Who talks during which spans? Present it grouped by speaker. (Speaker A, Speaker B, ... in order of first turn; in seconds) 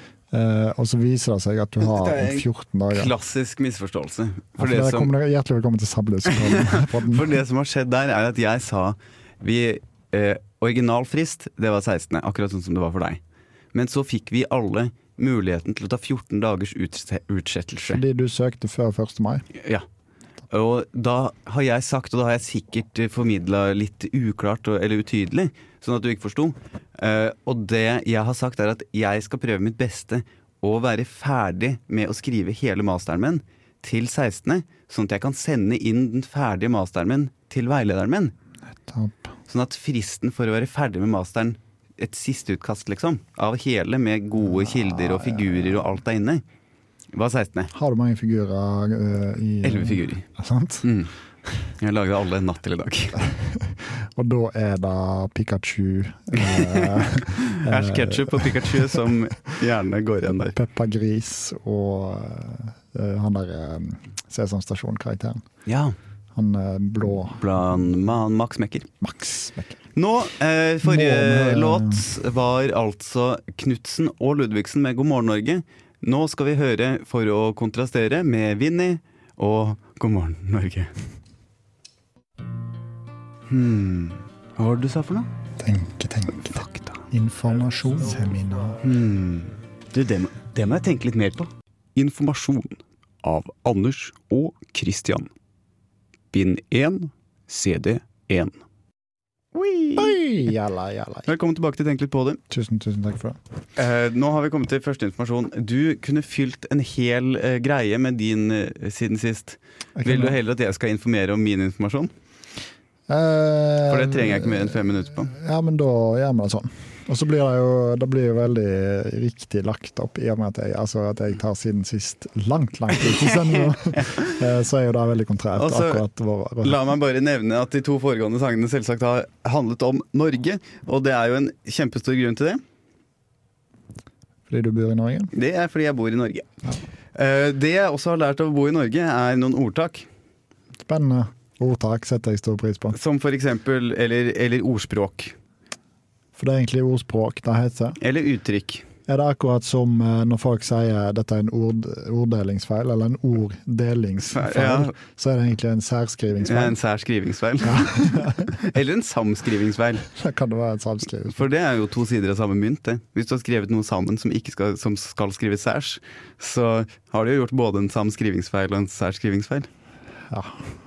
Speaker A: 0.3-3.1, 4.6-7.3, 17.9-19.4, 38.8-39.3, 44.5-46.0, 47.7-50.9, 53.2-59.0, 60.5-65.4, 66.3-67.4, 69.0-69.8, 70.8-72.1, 85.6-88.8, 100.0-101.3, 102.5-103.4, 110.0-110.4, 113.1-126.8, 134.5-135.3, 140.9-143.0, 146.4-148.0, 149.1-156.8, 157.6-158.6, 160.1-161.4, 170.3-170.7
Speaker B: 1.8-5.1, 6.3-13.2, 13.7-18.0, 19.6-19.9, 20.5-38.3, 39.5-46.4, 47.1-47.7, 49.6-50.2, 50.8-51.1, 51.8-53.2, 56.4-60.6, 65.7-66.0, 67.3-68.9, 70.0-80.9, 83.5-85.3, 86.5-87.0, 88.8-95.3, 96.3-98.6, 99.5-100.2, 101.3-102.4, 103.8-112.1, 113.9-115.3, 124.0-124.3, 125.6-126.0, 126.6-132.6, 135.3-136.5, 137.2-140.1, 142.9-145.3, 148.0-148.8, 154.3-154.9, 156.4-160.1, 161.3-169.7